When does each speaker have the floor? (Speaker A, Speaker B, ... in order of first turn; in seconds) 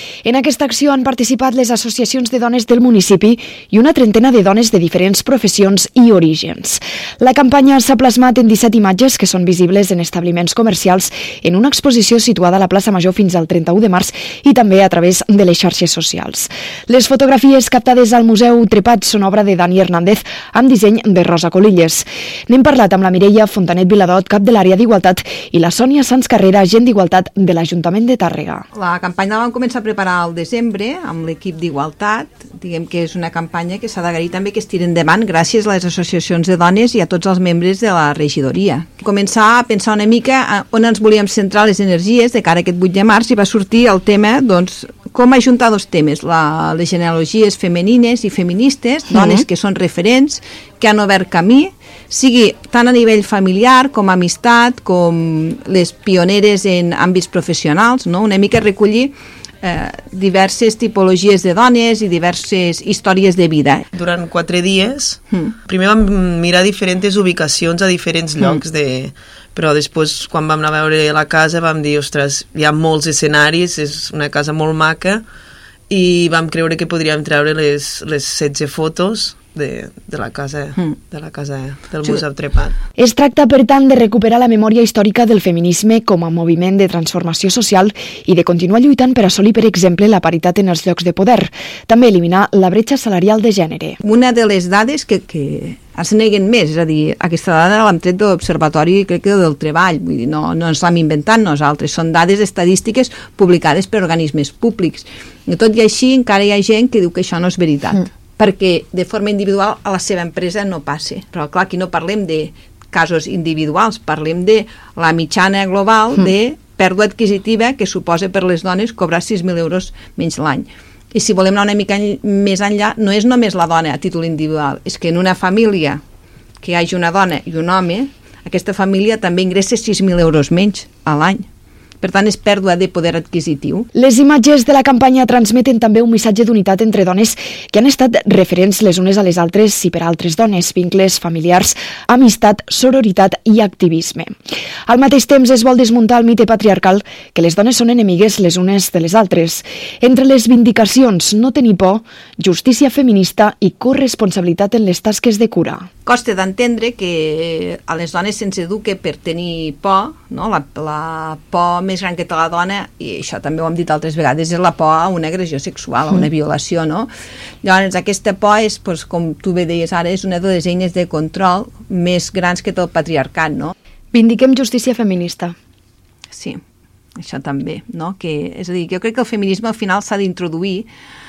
Speaker A: 0.2-28.6, 49.1-49.4, 83.0-94.0, 133.9-144.3, 144.9-155.9, 174.1-175.6
Speaker B: 28.7-63.9, 94.0-126.0, 126.6-131.5, 132.0-133.9, 156.1-167.1, 167.6-173.7, 176.3-176.6, 177.2-180.9
Speaker C: 63.9-75.2, 75.9-82.8